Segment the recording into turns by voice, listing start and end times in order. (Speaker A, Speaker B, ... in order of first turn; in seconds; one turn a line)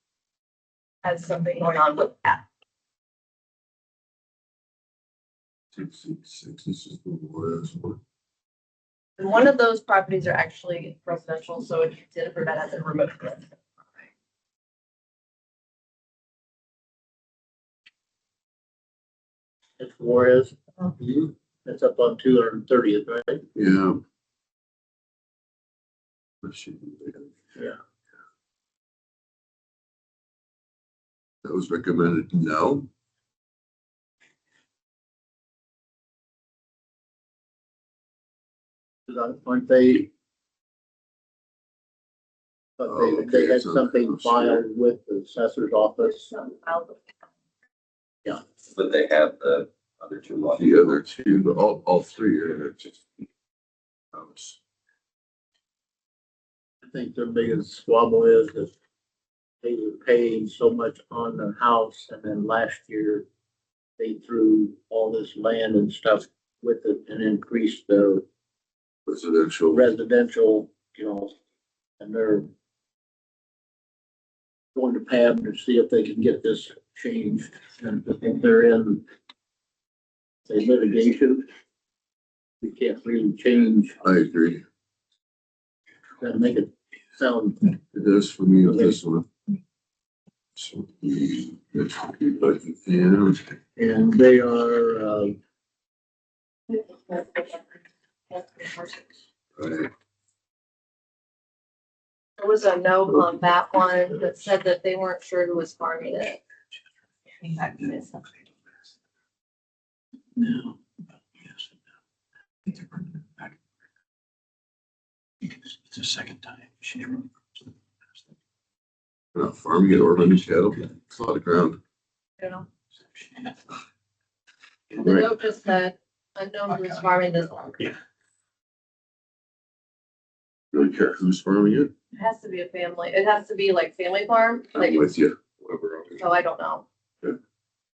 Speaker A: 1.0-2.4
Speaker B: 5.7-8.0
Speaker A: 9.2-14.1
Speaker C: 19.8-23.4
Speaker B: 23.5-24.0
Speaker B: 26.4-27.3
Speaker B: 31.4-32.9
Speaker C: 39.1-40.1
Speaker C: 42.8-46.3
Speaker B: 42.9-44.6
Speaker A: 46.0-47.1
Speaker D: 48.7-51.0
Speaker B: 50.5-53.0
Speaker B: 54.1-54.6
Speaker C: 56.8-58.7
Speaker C: 59.6-63.2
Speaker C: 64.0-68.2
Speaker B: 69.0-69.8
Speaker C: 69.7-71.3
Speaker C: 72.0-72.5
Speaker C: 74.7-79.0
Speaker C: 80.5-81.5
Speaker C: 82.6-83.9
Speaker B: 84.0-84.6
Speaker C: 86.2-87.7
Speaker B: 87.9-89.3
Speaker B: 90.5-93.6
Speaker C: 93.8-95.3
Speaker A: 96.7-97.8
Speaker A: 98.3-99.2
Speaker B: 99.6-99.9
Speaker A: 102.4-106.4
Speaker A: 107.4-108.3
Speaker C: 110.4-110.7
Speaker C: 112.7-113.2
Speaker C: 115.9-117.2
Speaker B: 119.3-121.8
Speaker A: 122.4-122.7
Speaker A: 125.0-127.9
Speaker B: 130.7-131.9
Speaker A: 132.1-135.0
Speaker B: 134.7-136.1
Speaker A: 136.2-136.8